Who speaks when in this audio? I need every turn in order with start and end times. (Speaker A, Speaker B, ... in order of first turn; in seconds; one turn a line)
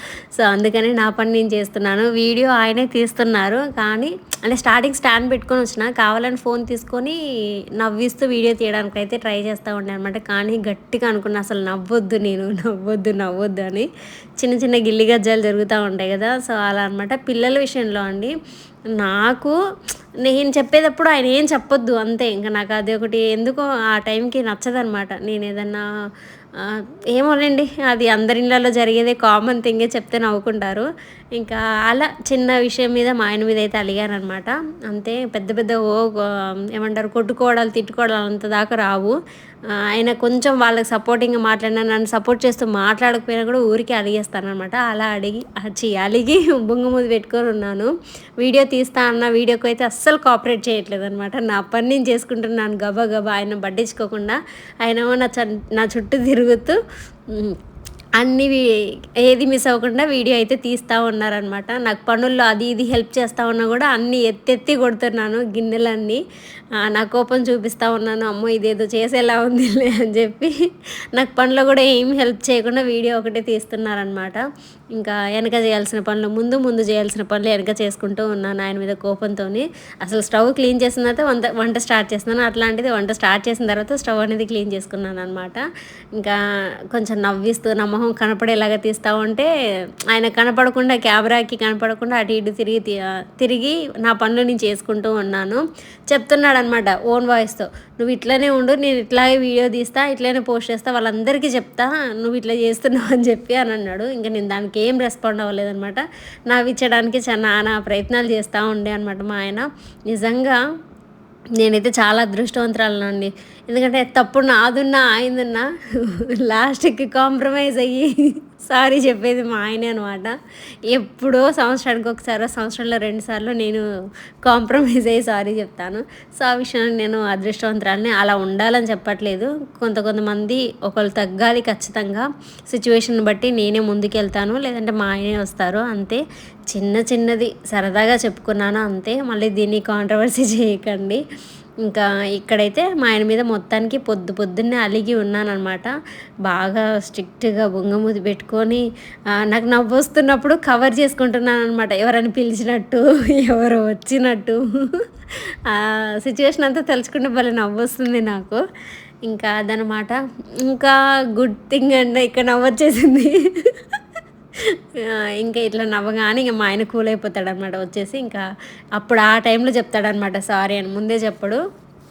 Speaker A: 0.3-7.2
Speaker A: 7.8-13.9
Speaker A: 14.4-18.3
Speaker A: 19.0-19.5
Speaker A: 20.2-25.8
Speaker A: 26.6-39.1
Speaker A: 39.9-56.8
Speaker A: 57.3-57.6
Speaker A: 58.2-58.7
Speaker A: 59.2-66.2
Speaker A: 66.8-70.5
Speaker A: 71.1-74.4
Speaker A: 74.9-85.6
Speaker A: 86.9-89.5
Speaker A: 90.1-110.6
Speaker A: 111.6-120.3
Speaker A: 120.9-123.8
Speaker A: 124.4-141.2
Speaker A: 141.8-145.9
Speaker A: 146.4-148.8
Speaker A: 149.4-155.0
Speaker A: 155.7-158.6
Speaker A: 159.2-163.8
Speaker A: 165.0-168.4
Speaker A: 168.9-171.6